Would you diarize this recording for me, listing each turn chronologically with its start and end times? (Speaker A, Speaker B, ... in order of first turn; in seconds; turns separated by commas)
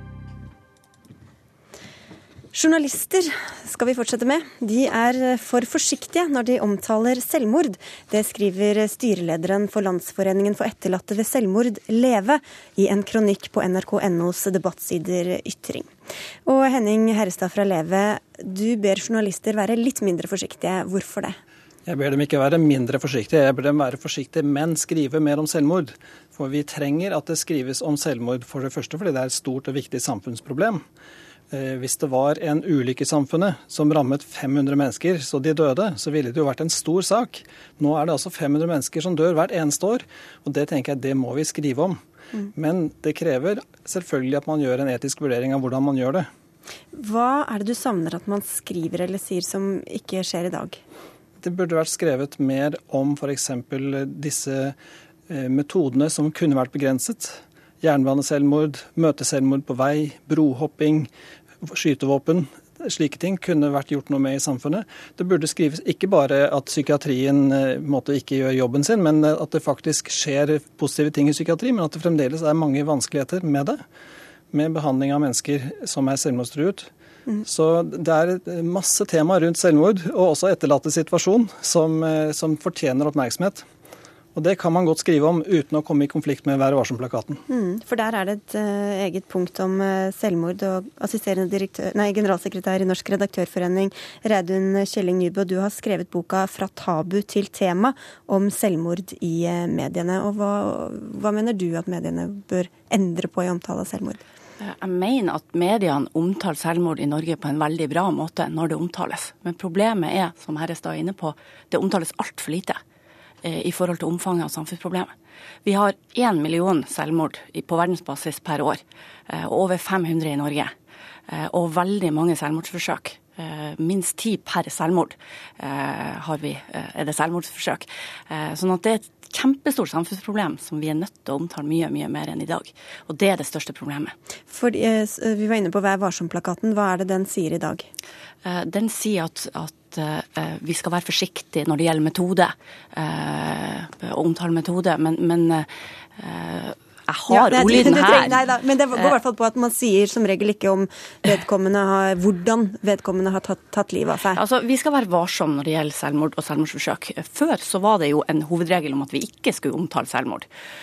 Speaker A: 2.5-15.9, Speaker A: 16.4-21.4, Speaker B: 21.9-30.8, Speaker B: 31.5-42.0, Speaker B: 42.5-46.3, Speaker A: 46.9-50.8, Speaker B: 51.4-54.7, Speaker B: 55.3-61.1, Speaker B: 61.6-73.8, Speaker B: 74.5-76.9, Speaker B: 77.4-83.6, Speaker B: 84.3-87.4, Speaker A: 87.5-104.2, Speaker C: 104.6-112.8, Speaker C: 113.4-115.1, Speaker C: 115.6-120.7, Speaker C: 121.3-134.1, Speaker A: 134.5-137.9, Speaker C: 138.4-148.5, Speaker A: 147.3-154.4, Speaker C: 154.3-160.4